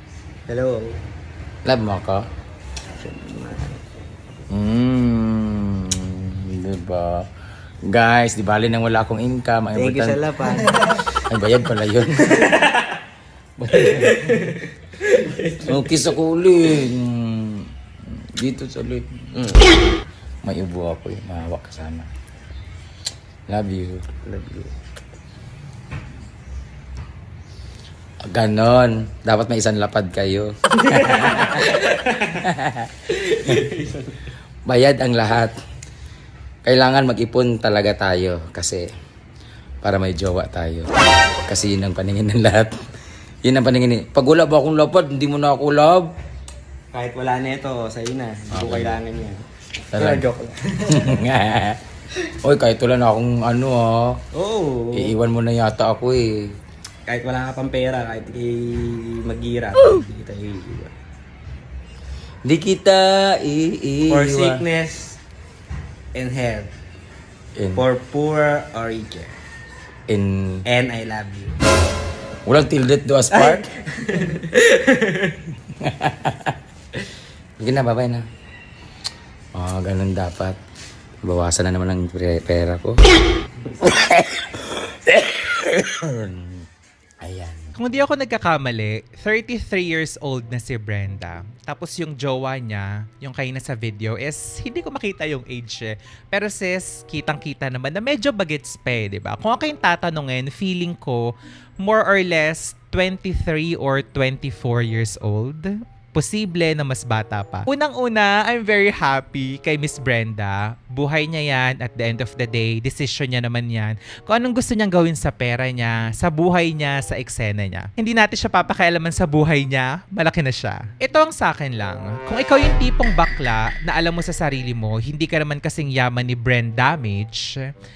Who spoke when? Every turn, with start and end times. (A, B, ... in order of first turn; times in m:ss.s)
0:00.5-0:01.0 A
0:01.6-0:02.2 B
0:03.0-0:03.8 A
0:04.5-0:07.3 B
0:07.8-0:10.2 B
0:09.7-0:11.0 A
0:11.3-0:12.5 B
0:12.3-0:12.9 A
0:13.6-0:14.2 B
0:13.7-0:15.8 A
0:15.6-0:19.5 B
0:19.3-0:19.8 A
0:20.4-0:22.1 B
0:23.5-0:24.1 B
0:24.2-0:24.7 A
0:28.2-0:31.7 B
0:30.9-0:32.3 A
0:32.3-0:32.9 B
0:33.3-0:34.1 A
0:34.6-0:35.5 B
0:36.6-0:38.9 B
0:39.8-0:40.9 B
0:41.4-0:42.8 B
0:43.4-0:46.1 B
0:46.9-0:51.2 A
0:48.5-0:49.0 B
0:49.9-0:50.2 B
0:50.9-0:51.8 B
0:52.4-0:54.2 B
0:54.3-0:55.2 A
0:54.9-0:56.5 B
0:57.1-1:00.9 A
1:02.4-1:04.6 B
1:04.1-1:05.2 A
1:06.1-1:06.7 A
1:07.6-1:07.8 B
1:07.7-1:09.4 A
1:10.1-1:10.6 B
1:10.6-1:11.5 A
1:12.4-1:13.6 B
1:13.3-1:15.4 A
1:15.8-1:16.6 B
1:17.6-1:18.2 B
1:19.5-1:20.6 B
1:21.2-1:23.0 B
1:23.8-1:26.6 B
1:27.2-1:27.7 B
1:27.8-2:07.7 C